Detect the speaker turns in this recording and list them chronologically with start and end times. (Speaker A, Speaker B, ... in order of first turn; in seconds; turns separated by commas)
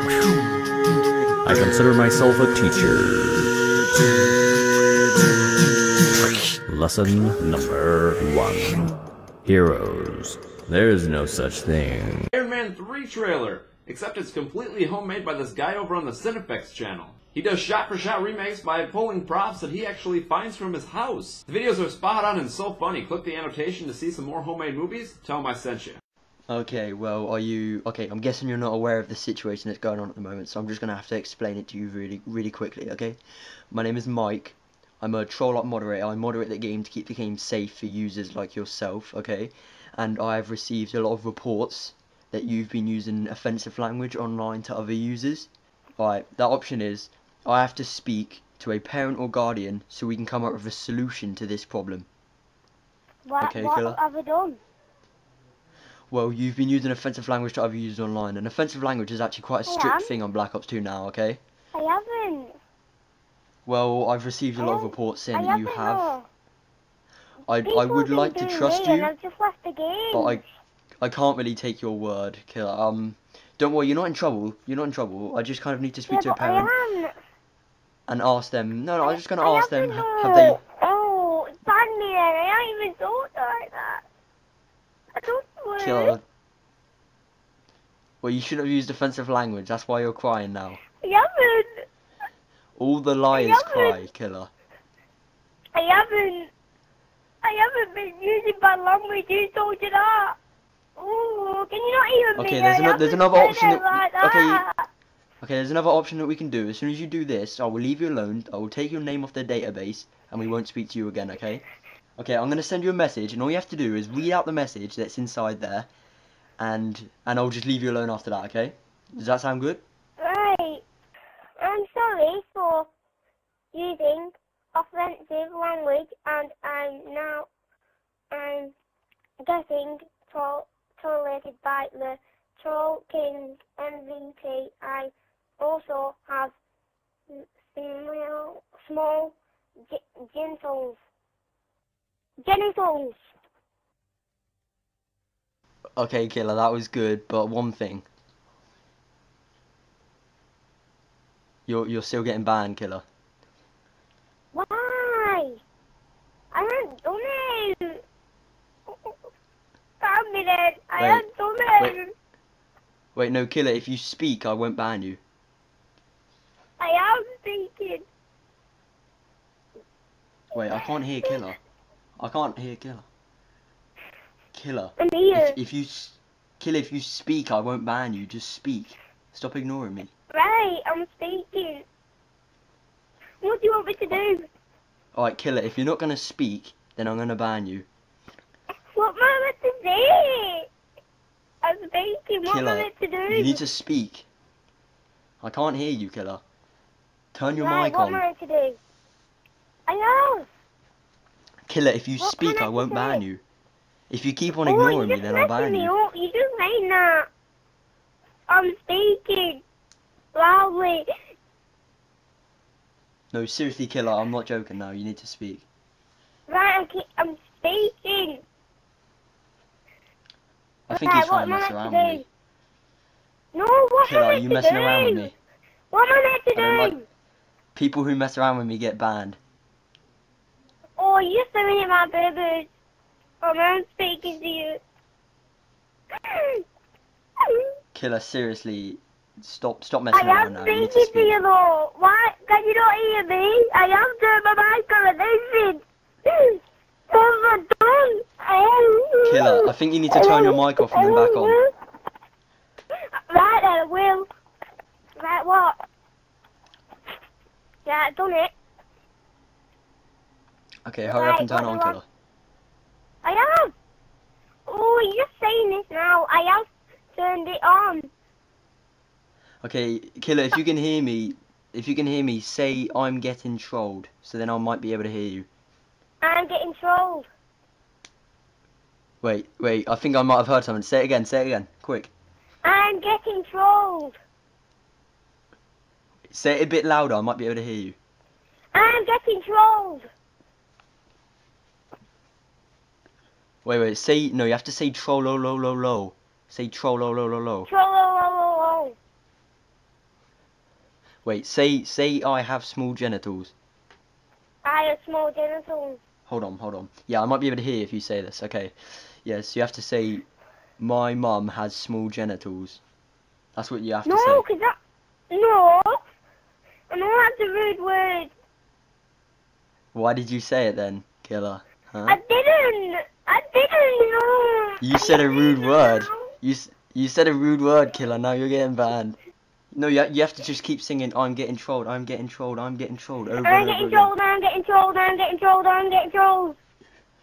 Speaker A: 1.4-3.5, Speaker A: 6.7-8.8, Speaker A: 9.4-12.2, Speaker B: 12.3-26.0, Speaker C: 26.5-33.2, Speaker C: 33.7-52.1, Speaker D: 53.2-54.6, Speaker C: 53.4-54.0, Speaker C: 56.1-61.4, Speaker D: 59.6-60.1, Speaker D: 61.7-62.5, Speaker C: 63.6-66.1, Speaker D: 64.6-66.2, Speaker C: 67.5-69.1, Speaker D: 67.6-70.4, Speaker C: 70.1-70.4, Speaker C: 71.0-76.7, Speaker D: 76.1-77.1, Speaker C: 78.1-80.6, Speaker D: 79.0-84.0, Speaker D: 85.2-86.2, Speaker C: 85.8-86.2, Speaker C: 88.2-90.8, Speaker D: 91.0-91.8, Speaker C: 92.8-94.5, Speaker D: 93.3-94.0, Speaker D: 95.7-96.5, Speaker D: 97.4-100.4, Speaker D: 101.0-104.8, Speaker C: 102.3-104.6, Speaker C: 105.4-111.6, Speaker C: 112.2-115.9, Speaker C: 116.6-119.8, Speaker D: 120.2-120.8, Speaker D: 121.6-122.9, Speaker D: 123.7-127.5, Speaker D: 128.3-128.7, Speaker D: 129.4-136.5, Speaker D: 137.3-139.3, Speaker D: 139.9-141.0, Speaker D: 142.4-143.2, Speaker C: 146.0-148.0, Speaker C: 151.7-153.0, Speaker D: 154.5-155.6, Speaker D: 156.5-158.0, Speaker D: 160.0-162.1, Speaker C: 161.0-161.2, Speaker C: 163.2-165.2, Speaker D: 166.8-168.0, Speaker C: 170.5-171.6, Speaker C: 172.2-173.0, Speaker C: 174.5-180.1, Speaker D: 175.0-175.6, Speaker D: 180.3-181.8, Speaker D: 183.4-184.5, Speaker C: 185.1-187.8, Speaker D: 188.9-190.7, Speaker D: 191.6-193.6, Speaker C: 192.4-194.2, Speaker C: 195.4-196.4, Speaker C: 197.3-198.2, Speaker D: 197.5-198.8, Speaker D: 199.9-200.5, Speaker C: 201.7-203.4, Speaker D: 202.2-203.2, Speaker C: 204.1-205.9, Speaker D: 204.6-207.3, Speaker D: 208.5-209.6, Speaker D: 210.3-211.1, Speaker C: 213.3-215.6, Speaker D: 216.5-218.4, Speaker C: 220.9-222.2, Speaker D: 220.9-222.2, Speaker D: 223.5-225.3, Speaker C: 224.0-225.3, Speaker D: 225.9-227.1, Speaker C: 226.5-226.9, Speaker C: 227.7-229.4, Speaker D: 231.0-232.7, Speaker D: 233.4-234.8, Speaker D: 236.3-236.6, Speaker D: 237.4-237.7, Speaker C: 237.9-241.4, Speaker D: 240.1-251.7, Speaker C: 249.2-251.6, Speaker D: 253.1-254.3, Speaker D: 255.2-255.7, Speaker D: 257.8-258.5, Speaker C: 260.9-262.0, Speaker D: 261.1-262.0, Speaker D: 263.2-263.7, Speaker D: 264.7-268.1, Speaker C: 269.6-275.5, Speaker D: 276.2-277.3, Speaker C: 279.2-282.1, Speaker D: 282.6-284.1, Speaker C: 286.3-287.9, Speaker D: 288.7-290.1, Speaker C: 293.6-297.7, Speaker D: 297.7-298.9, Speaker C: 301.2-303.5, Speaker D: 304.6-306.0, Speaker C: 306.3-310.2, Speaker C: 310.8-312.8, Speaker C: 313.6-314.4, Speaker D: 314.1-314.8, Speaker D: 315.3-316.0, Speaker D: 316.9-318.3, Speaker C: 319.9-322.2, Speaker D: 322.1-326.3, Speaker C: 324.8-329.2, Speaker C: 329.7-334.1, Speaker D: 333.4-336.6